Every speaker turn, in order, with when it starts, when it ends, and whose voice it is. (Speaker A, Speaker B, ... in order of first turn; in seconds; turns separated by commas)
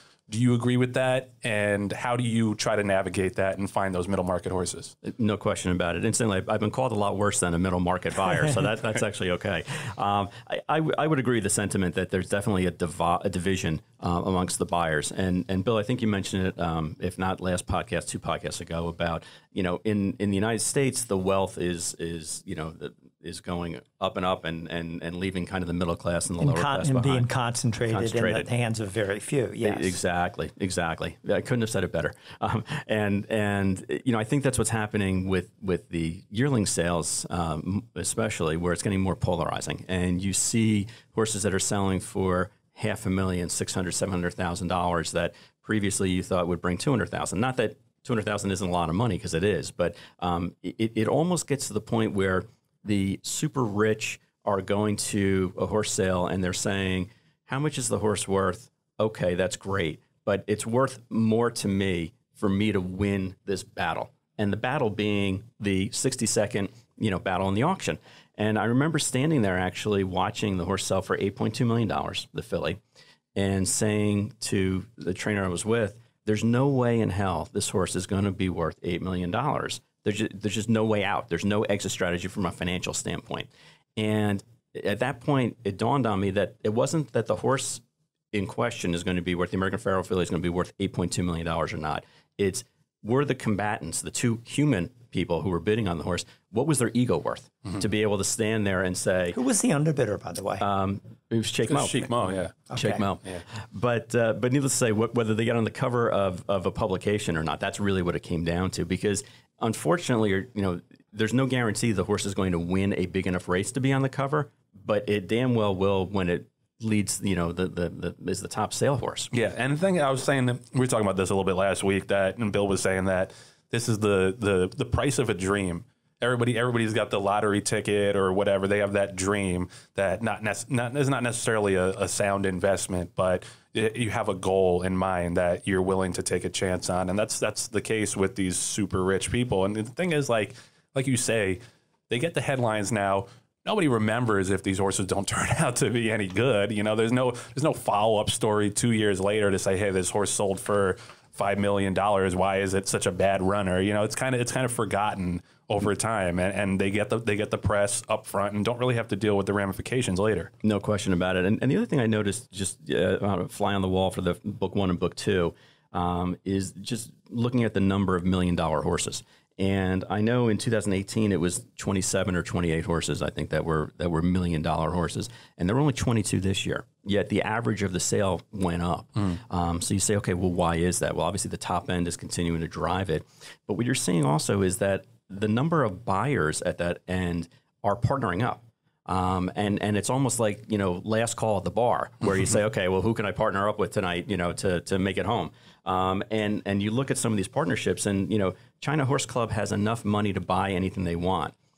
Speaker A: 0.3-4.9, Speaker B: 5.0-27.3, Speaker C: 26.4-30.0, Speaker B: 27.9-28.5, Speaker B: 29.6-72.8, Speaker B: 73.4-87.8, Speaker B: 88.3-99.4, Speaker C: 99.3-100.6, Speaker B: 100.6-102.1, Speaker A: 101.7-102.7, Speaker C: 102.7-103.0, Speaker B: 102.7-119.3, Speaker A: 119.3-160.5, Speaker B: 160.6-201.5